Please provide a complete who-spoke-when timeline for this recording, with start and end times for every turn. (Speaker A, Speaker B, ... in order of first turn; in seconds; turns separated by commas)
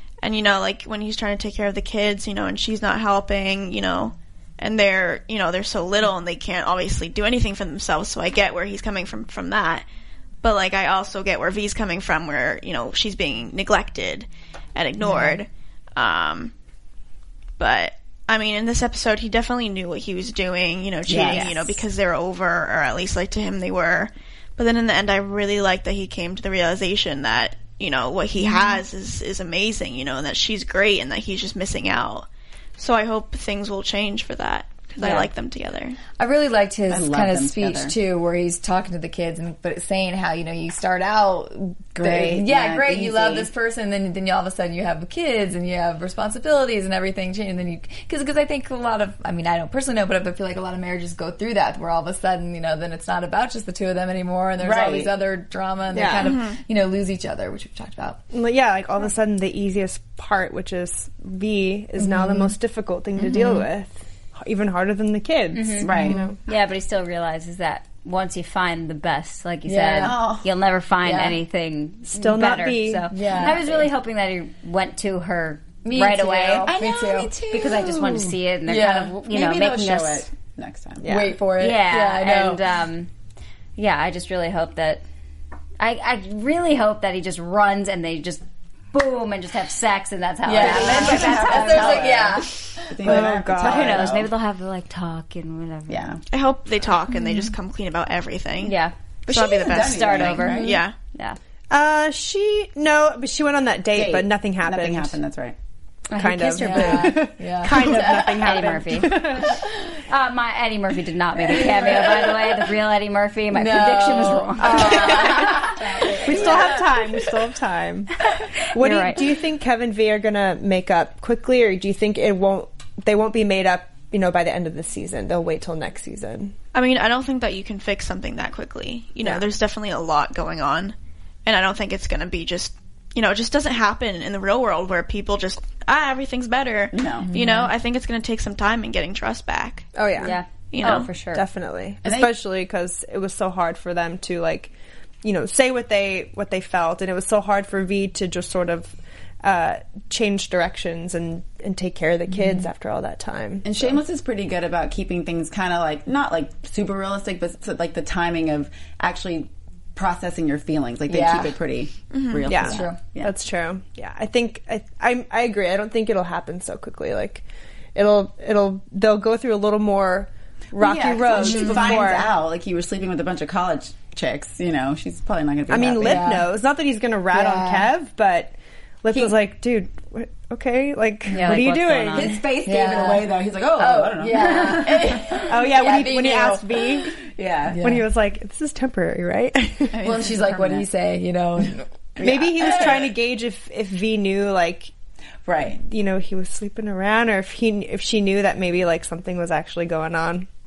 Speaker A: 0.2-9.8, Speaker A: 10.4-16.5, Speaker B: 15.1-15.4, Speaker A: 17.6-36.0, Speaker B: 21.1-21.5, Speaker C: 21.3-21.6, Speaker D: 35.0-35.3, Speaker D: 36.2-58.2, Speaker B: 36.9-38.0, Speaker B: 42.0-43.5, Speaker B: 54.6-55.1, Speaker E: 55.9-56.3, Speaker A: 56.2-56.6, Speaker E: 58.3-66.4, Speaker D: 62.0-62.5, Speaker D: 63.2-63.7, Speaker C: 65.5-76.7, Speaker B: 65.8-66.2, Speaker D: 69.7-70.2, Speaker B: 70.0-70.5, Speaker D: 71.0-71.4, Speaker E: 72.1-73.2, Speaker D: 73.1-73.7, Speaker D: 75.8-77.3, Speaker B: 76.6-78.3, Speaker C: 77.5-80.3, Speaker D: 78.7-79.2, Speaker B: 79.2-81.2, Speaker E: 81.0-81.4, Speaker D: 81.0-82.6, Speaker C: 81.6-83.1, Speaker C: 83.8-85.0, Speaker C: 85.8-92.1, Speaker D: 90.5-93.3, Speaker B: 90.5-94.3, Speaker E: 93.0-94.1, Speaker C: 93.6-96.1, Speaker B: 95.9-96.2, Speaker A: 96.3-100.9, Speaker C: 98.6-98.9, Speaker B: 99.3-100.8, Speaker C: 99.7-101.4, Speaker D: 100.5-100.8, Speaker E: 101.7-105.2, Speaker B: 103.9-105.6, Speaker C: 106.1-107.2, Speaker E: 106.1-109.6, Speaker D: 106.6-108.5, Speaker C: 108.3-109.2, Speaker D: 109.3-109.7, Speaker C: 110.1-115.0, Speaker D: 111.5-112.3, Speaker D: 113.5-117.0, Speaker E: 114.6-115.7, Speaker B: 115.8-116.8, Speaker E: 116.2-126.5, Speaker C: 118.8-119.2, Speaker A: 126.7-130.9, Speaker A: 131.5-139.9, Speaker B: 136.9-137.4, Speaker D: 137.3-137.7, Speaker E: 140.0-140.4, Speaker C: 140.2-141.4, Speaker A: 140.7-141.1, Speaker E: 141.3-154.0, Speaker B: 142.0-142.3, Speaker D: 152.3-152.7, Speaker B: 153.6-163.3, Speaker D: 161.1-161.6, Speaker A: 162.1-162.5, Speaker E: 162.5-167.4, Speaker D: 162.6-163.0, Speaker E: 167.9-172.3, Speaker B: 170.8-176.4, Speaker D: 171.4-172.1, Speaker E: 175.7-182.4, Speaker D: 176.0-176.5, Speaker D: 177.3-177.9, Speaker C: 181.3-182.4, Speaker B: 182.2-185.6, Speaker D: 182.6-186.9, Speaker E: 185.4-187.2, Speaker B: 187.2-187.9, Speaker D: 187.7-188.0, Speaker E: 187.8-190.0, Speaker B: 189.9-190.9, Speaker D: 190.0-191.9, Speaker B: 192.2-193.1, Speaker E: 192.2-194.9, Speaker B: 195.4-195.8, Speaker E: 195.8-200.5